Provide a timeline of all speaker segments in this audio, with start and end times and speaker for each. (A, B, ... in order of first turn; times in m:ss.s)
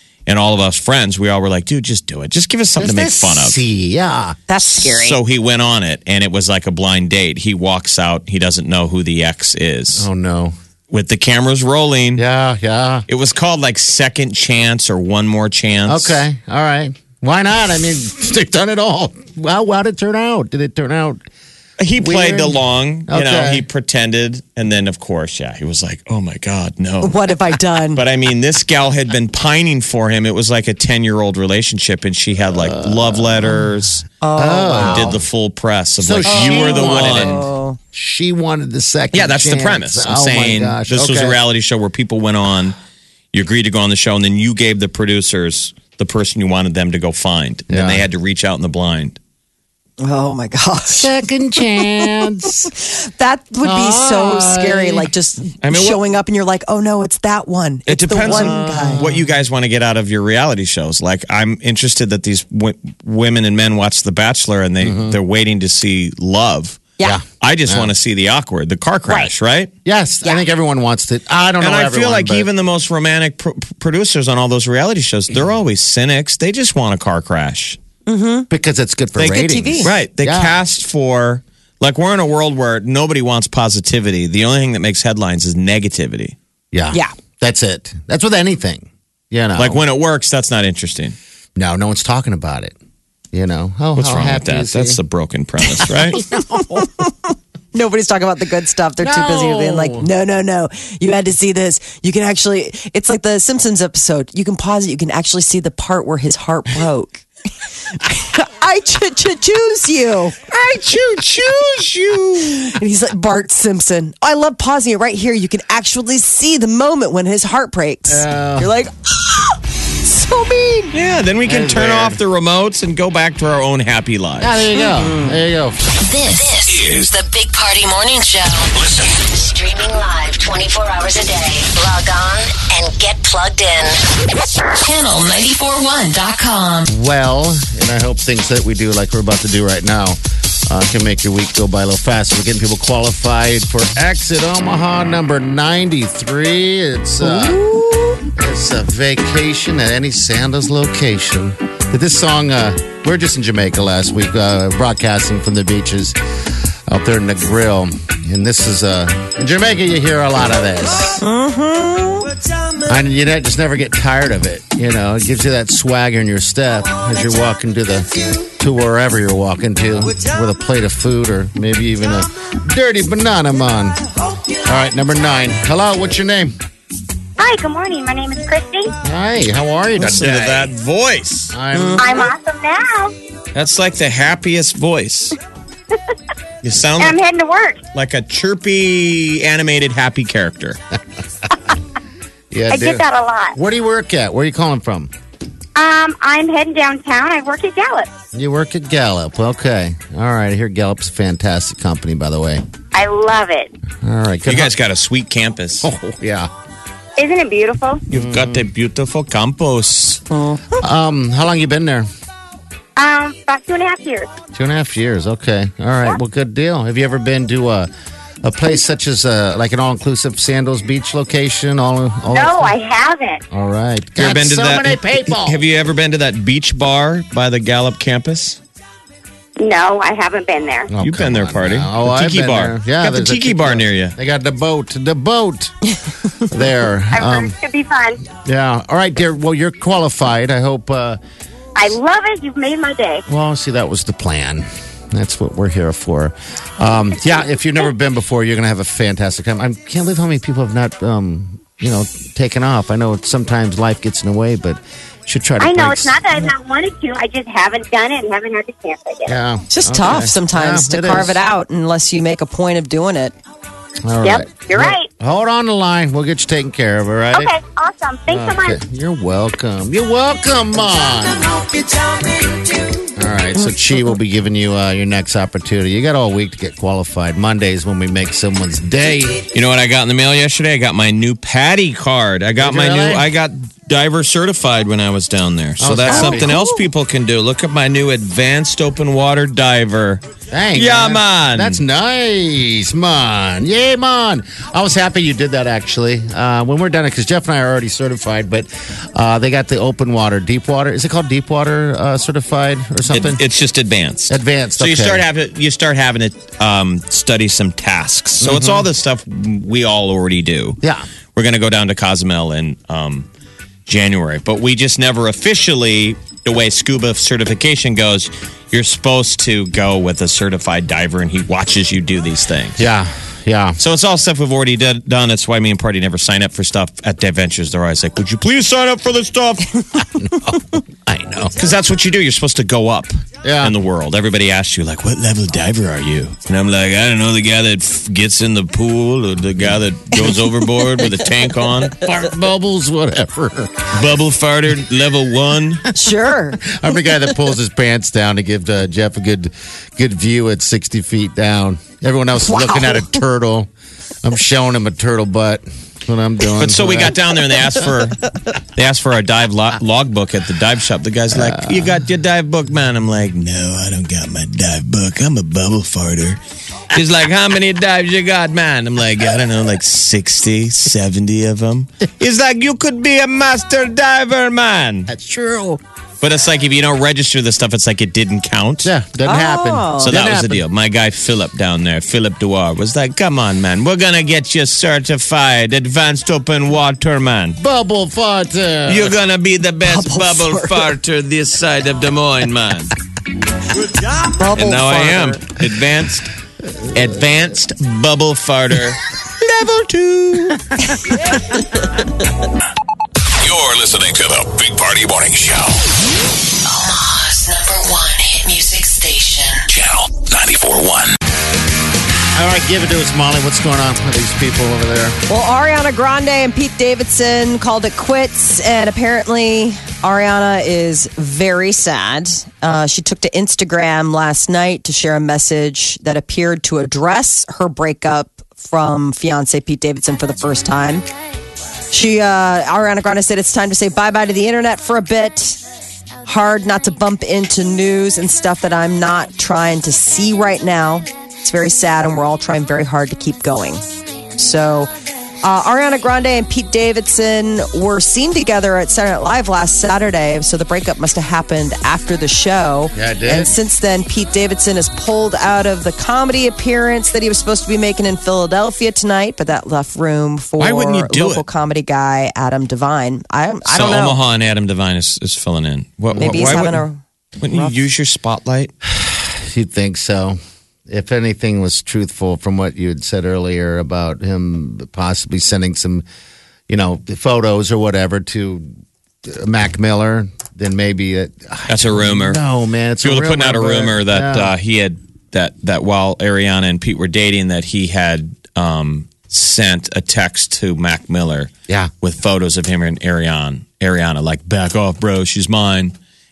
0:00.3-0:03.6 A
0:02.8-0:04.4 B
0:04.5-0:05.2 C
0:04.8-0:10.1 A
0:10.0-0:10.6 B
0:10.9-0:12.2 A
0:12.2-0:13.1 B
0:13.1-0:16.2 A
0:15.9-0:21.2 B
0:21.8-0:34.1 A
0:22.0-0:23.6 B
0:27.0-0:28.0 C
0:32.5-0:33.6 B
0:34.2-0:35.1 C
0:34.4-0:35.2 B
0:34.8-0:37.4 A
0:36.0-0:41.4 B
0:36.3-0:37.8 C
0:39.1-0:42.8 A
0:43.3-0:49.2 A
0:47.7-0:48.0 B
0:50.0-0:51.2 C
0:50.9-0:52.7 B
0:51.8-0:52.2 C
0:52.7-0:59.0 C
0:53.6-0:55.1 B
0:55.6-0:56.0 A
0:57.9-1:06.9 A
0:58.2-0:59.2 B
1:04.8-1:05.2 B
1:07.0-1:07.9 B
1:07.4-1:09.7 A
1:09.8-1:12.5 B
1:11.6-1:17.8 A
1:18.1-1:18.5 C
1:18.5-1:20.6 B
1:19.2-1:19.9 C
1:19.8-1:26.4 A
1:26.7-1:29.8 B
1:29.6-1:31.2 A
1:31.6-1:32.8 B
1:33.3-1:35.0 B
1:34.0-1:36.3 A
1:35.8-1:36.9 B
1:36.4-1:37.1 C
1:37.7-1:47.2 C
1:39.0-1:40.1 B
1:48.0-1:50.5 C
1:50.5-1:52.8 A
1:52.5-2:00.9 C
1:58.1-1:58.7 B
2:00.9-2:04.6 A
2:01.4-2:02.2 B
2:04.4-2:05.8 B
2:04.8-2:05.4 C
2:06.0-2:14.0 D
2:06.6-2:07.1 E
2:08.8-2:09.2 E
2:14.7-2:16.9 D
2:16.9-2:27.6 B
2:27.2-2:28.2 C
2:28.4-2:36.2 B
2:36.9-2:41.2 B
2:41.2-2:42.3 C
2:42.8-2:54.0 B
2:54.5-2:56.6 B
2:57.4-2:58.9 F
2:59.0-3:00.7 B
3:00.0-3:01.6 A
3:01.5-3:02.2 B
3:01.7-3:02.3 C
3:02.0-3:03.1 F
3:03.5-3:05.4 A
3:06.6-3:07.2 A
3:07.0-3:07.8 F
3:07.9-3:10.8 A
3:12.5-3:15.1 B
3:12.7-3:13.6 F
3:15.8-3:18.1 F
3:18.3-3:22.6 B
3:22.9-3:23.7 F
3:24.0-3:24.7 B
3:24.5-3:25.9 A
3:25.8-3:26.5 B
3:27.2-3:28.0 F
3:28.1-3:30.2 A
3:28.1-3:28.6 B
3:30.3-3:30.8 C
3:30.8-3:32.1 B
3:33.0-3:34.3 F
3:34.5-3:37.9 B
3:38.4-3:42.8 B
3:42.3-3:43.4 F
3:43.5-3:45.6 B
3:44.2-3:48.6 A
3:49.6-3:50.9 F
3:50.9-3:57.6 B
3:51.0-3:54.2 A
3:57.1-3:58.2 F
3:58.4-4:01.2 B
4:01.8-4:03.2 F
4:03.3-4:16.5 B
4:15.6-4:19.4 F
4:19.3-4:21.4 B
4:19.7-4:23.3 C
4:24.0-4:27.5 B
4:24.2-4:25.1 F
4:27.3-4:28.8 F
4:28.3-4:31.7 B
4:33.2-4:39.5 B
4:39.5-4:50.2 A
4:42.6-4:43.3 B
4:45.8-4:46.5 B
4:46.1-4:46.8 C
4:50.5-5:03.4 B
4:50.8-4:51.8 A
5:03.1-5:10.8 A
5:04.3-5:05.2 B
5:08.4-5:08.9 B
5:10.8-5:11.1 B
5:11.4-5:13.3 A
5:13.9-5:22.8 A
5:22.8-5:23.8 B
5:23.8-5:30.0 A
5:30.1-5:31.6 B
5:31.6-5:42.0 A
5:33.4-5:33.8 B
5:42.0-5:43.9 B
5:43.9-5:45.9 A
5:46.0-5:46.7 C
5:46.6-5:53.7 B
5:52.4-5:53.1 C
5:54.2-5:57.2 B
5:56.5-6:06.4 A
6:01.3-6:02.0 B
6:06.9-6:15.1 A
6:15.1-6:15.8 B
6:16.2-6:18.9 A
6:18.8-6:20.6 B
6:19.3-6:20.1 C
6:20.0-6:27.6 A
6:27.6-6:29.2 B
6:28.9-6:33.0 A
6:29.8-6:30.9 C
6:34.2-6:35.4 C
6:34.5-6:36.3 A
6:36.9-6:39.0 A
6:39.6-6:40.6 A
6:43.4-6:45.8 E
6:46.6-6:49.7 D
6:49.7-6:51.2 E
6:52.3-6:55.2 B
6:55.3-7:11.1 C
7:11.9-7:15.6 C
7:16.3-7:23.8 C
7:24.4-7:24.9 C
7:25.4-7:44.2 C
7:32.9-7:33.6 B
7:40.6-7:41.4 A
7:43.7-7:46.8 A
7:46.2-7:47.8 C
7:46.2-7:46.5 B
7:47.4-7:48.7 A
7:48.9-7:56.0 B
7:56.7-7:58.7 B
7:59.2-8:04.5 B
8:01.7-8:02.4 A
8:03.0-8:11.5 A
8:12.0-8:16.0 A